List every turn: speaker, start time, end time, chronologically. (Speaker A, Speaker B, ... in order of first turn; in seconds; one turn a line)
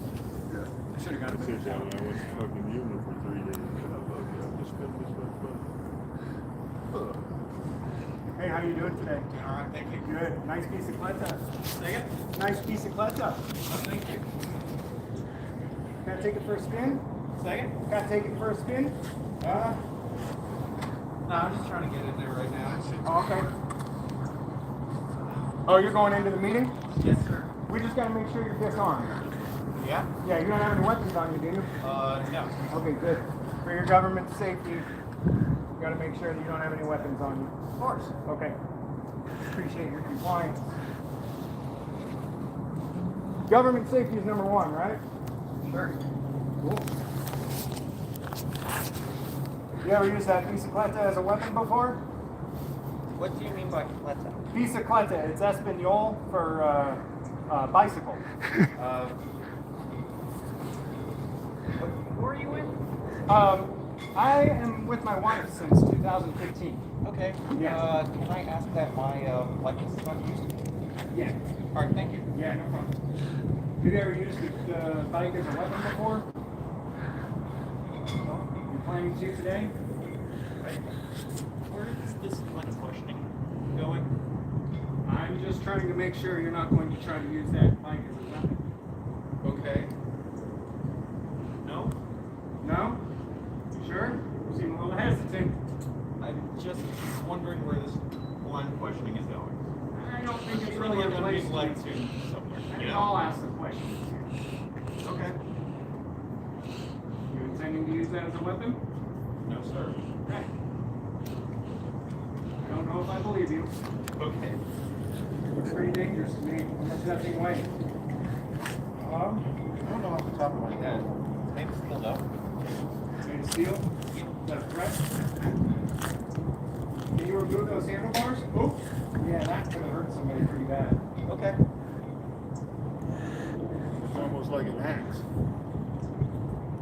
Speaker A: 0.9-1.9
Speaker B: 1.2-5.7
Speaker B: 6.9-7.2
Speaker A: 8.3-9.3
Speaker C: 9.3-10.1
Speaker A: 10.0-11.5
Speaker C: 11.6-12.2
Speaker A: 12.3-13.4
Speaker C: 13.6-14.2
Speaker A: 16.0-17.1
Speaker C: 17.4-17.8
Speaker A: 17.8-19.0
Speaker C: 19.4-19.8
Speaker C: 21.2-23.4
Speaker A: 23.1-23.5
Speaker C: 25.2-27.5
Speaker A: 25.7-26.8
Speaker A: 27.7-29.2
Speaker C: 29.8-30.1
Speaker A: 30.2-31.7
Speaker C: 31.8-32.6
Speaker A: 32.6-34.9
Speaker A: 35.8-37.6
Speaker C: 37.8-38.1
Speaker A: 38.2-38.6
Speaker A: 39.5-40.7
Speaker A: 43.5-45.0
Speaker C: 45.6-46.0
Speaker A: 46.6-46.9
Speaker A: 49.8-52.0
Speaker C: 53.1-54.5
Speaker A: 54.5-58.2
Speaker C: 58.8-59.2
Speaker C: 61.8-62.8
Speaker A: 63.3-66.8
Speaker C: 67.0-70.5
Speaker A: 67.5-67.8
Speaker A: 71.1-71.4
Speaker C: 71.7-72.3
Speaker A: 72.3-73.0
Speaker A: 73.8-76.3
Speaker A: 78.2-79.7
Speaker C: 80.6-80.9
Speaker C: 81.7-84.1
Speaker A: 85.0-88.6
Speaker C: 89.4-89.9
Speaker C: 91.6-92.0
Speaker A: 92.6-93.0
Speaker A: 93.8-95.6
Speaker C: 96.2-99.6
Speaker A: 99.9-102.0
Speaker C: 100.5-103.2
Speaker A: 102.7-104.3
Speaker C: 105.0-105.4
Speaker A: 107.3-108.8
Speaker C: 109.4-110.0
Speaker A: 110.2-110.5
Speaker A: 112.6-113.7
Speaker C: 114.2-114.6
Speaker A: 115.6-117.7
Speaker A: 119.0-119.5
Speaker C: 119.8-122.3
Speaker A: 123.2-123.9
Speaker C: 124.1-124.4
Speaker A: 124.4-125.1
Speaker A: 127.1-131.0
Speaker C: 131.2-131.6